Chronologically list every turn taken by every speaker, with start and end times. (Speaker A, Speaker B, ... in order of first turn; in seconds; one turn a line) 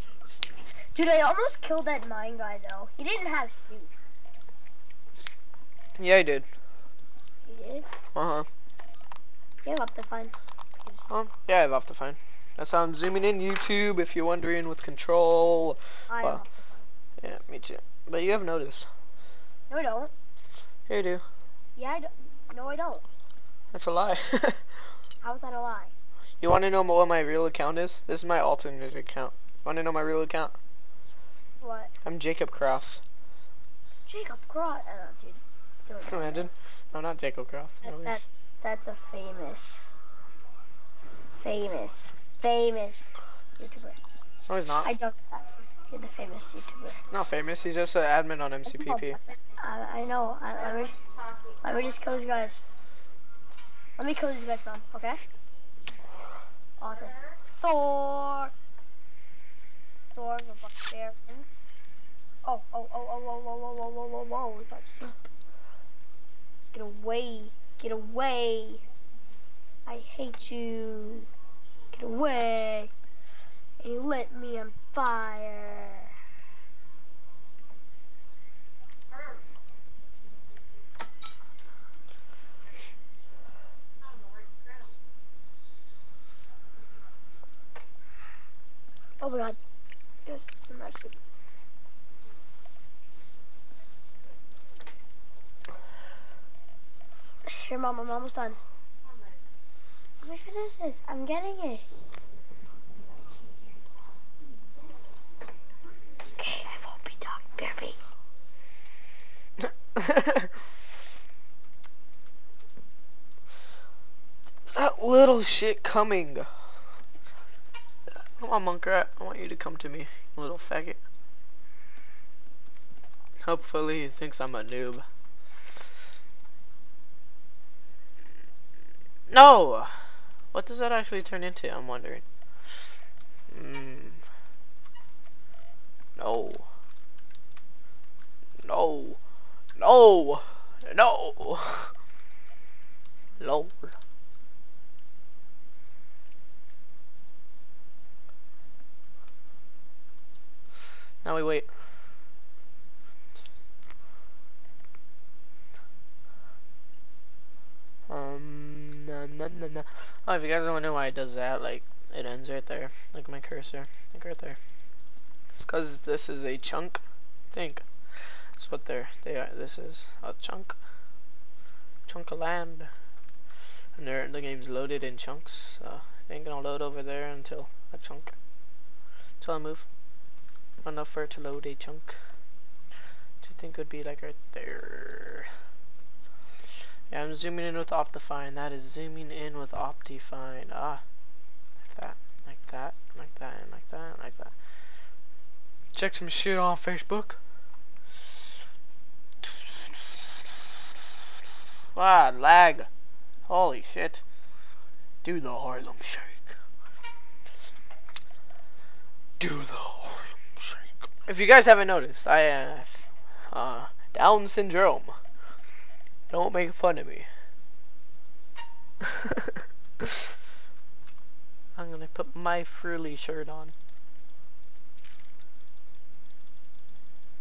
Speaker A: 0.9-3.9
Speaker B: 6.0-6.5
Speaker A: 7.5-7.9
Speaker B: 8.1-8.5
Speaker A: 9.6-11.1
Speaker B: 11.1-16.4
Speaker A: 16.1-16.9
Speaker B: 17.2-18.9
Speaker A: 19.7-20.1
Speaker B: 20.9-21.2
Speaker A: 21.8-23.0
Speaker B: 23.7-24.6
Speaker A: 25.2-25.9
Speaker B: 26.4-30.6
Speaker A: 31.6-31.9
Speaker B: 32.0-33.0
Speaker A: 34.0-36.5
Speaker B: 36.1-38.2
Speaker A: 37.8-39.9
Speaker A: 41.4-44.0
Speaker B: 44.5-44.9
Speaker A: 44.8-47.0
Speaker B: 47.1-49.2
Speaker A: 48.6-51.0
Speaker A: 51.6-52.6
Speaker A: 54.0-55.2
Speaker A: 56.8-58.5
Speaker A: 60.1-61.6
Speaker A: 62.4-65.1
Speaker A: 66.7-68.8
Speaker A: 69.8-71.3
Speaker A: 71.9-72.9
Speaker A: 73.8-76.1
Speaker A: 89.2-89.6
Speaker A: 90.2-91.2
Speaker A: 97.5-98.6
Speaker A: 100.2-101.8
Speaker A: 106.4-108.0
Speaker B: 109.6-110.5
Speaker B: 114.7-116.5
Speaker B: 118.4-121.0
Speaker B: 123.4-125.0
Speaker B: 129.3-129.9
Speaker B: 130.5-132.2
Speaker B: 133.5-134.2
Speaker B: 136.2-136.7
Speaker B: 138.6-139.2
Speaker B: 139.8-141.9
Speaker B: 143.4-143.9
Speaker B: 151.2-151.7
Speaker B: 158.1-164.6
Speaker B: 165.5-170.8
Speaker B: 172.1-172.9
Speaker B: 173.9-178.3
Speaker B: 179.4-179.8
Speaker B: 180.8-182.1
Speaker B: 183.4-185.5
Speaker B: 187.1-191.0
Speaker B: 191.8-194.5
Speaker B: 195.9-197.4
Speaker B: 201.9-202.9
Speaker B: 203.5-204.2
Speaker B: 205.2-206.6
Speaker B: 209.4-215.2
Speaker B: 216.3-217.3
Speaker B: 219.0-220.1
Speaker B: 221.8-223.7